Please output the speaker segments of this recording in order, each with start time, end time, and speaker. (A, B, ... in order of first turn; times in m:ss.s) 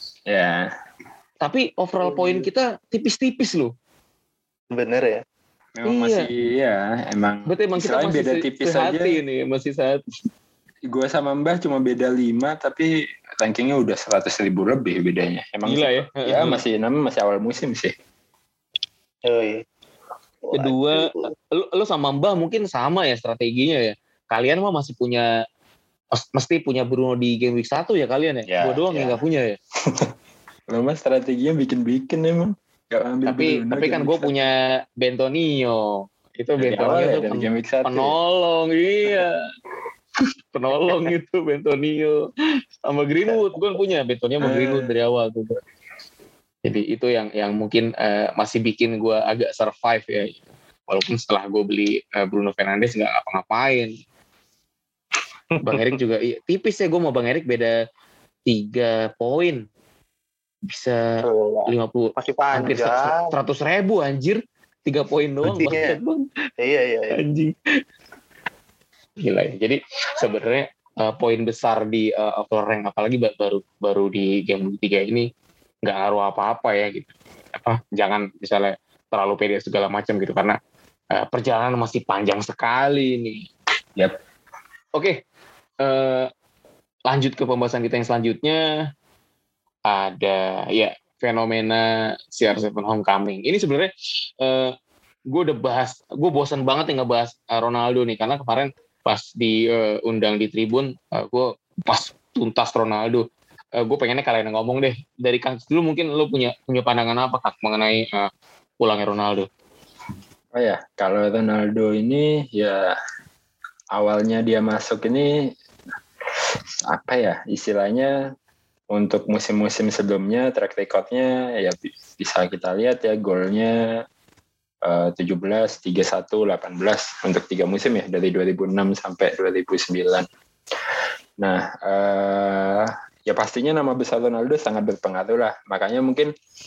0:00.3-0:00.7 A
0:01.4-0:03.7 B
0:02.0-0:02.5 C
0:04.7-0:05.2 C
0:05.8-0:09.2 A
0:05.8-0:06.3 B
0:07.5-0:10.0 B
0:10.9-0:17.9 A
0:15.6-0:16.6 B
0:19.3-0:19.6 C
0:20.4-0:21.3 C
0:20.5-0:25.2 B
0:26.1-0:29.6 B
0:28.5-0:29.2 A
0:30.7-0:34.4 A
0:33.2-0:39.4 B
0:36.6-0:38.1 A
0:36.8-0:37.2 C
0:40.5-0:42.2 B
0:42.8-0:45.6 B
0:43.3-0:43.6 C
0:44.5-0:44.8 A
0:46.6-0:53.9 B
0:55.5-0:55.8 C
0:55.6-0:57.7 B
0:58.5-0:59.6 B
1:00.7-1:01.0 B
1:01.2-1:03.3 C
1:01.7-1:06.2 B
1:05.5-1:06.0 C
1:06.6-1:07.2 C
1:07.1-1:07.5 B
1:09.2-1:15.3 B
1:15.8-1:20.6 B
1:21.2-1:23.5 B
1:24.9-1:25.2 B
1:25.8-1:26.3 B
1:27.1-1:28.6 B
1:29.9-1:34.7 B
1:35.3-1:43.2 B
1:43.8-1:48.3 B
1:48.8-1:49.5 B
1:50.5-1:52.9 A
1:53.9-1:55.5 A
1:56.8-1:58.1 A
1:58.9-2:03.8 A
2:04.8-2:10.3 A
2:11.4-2:16.3 A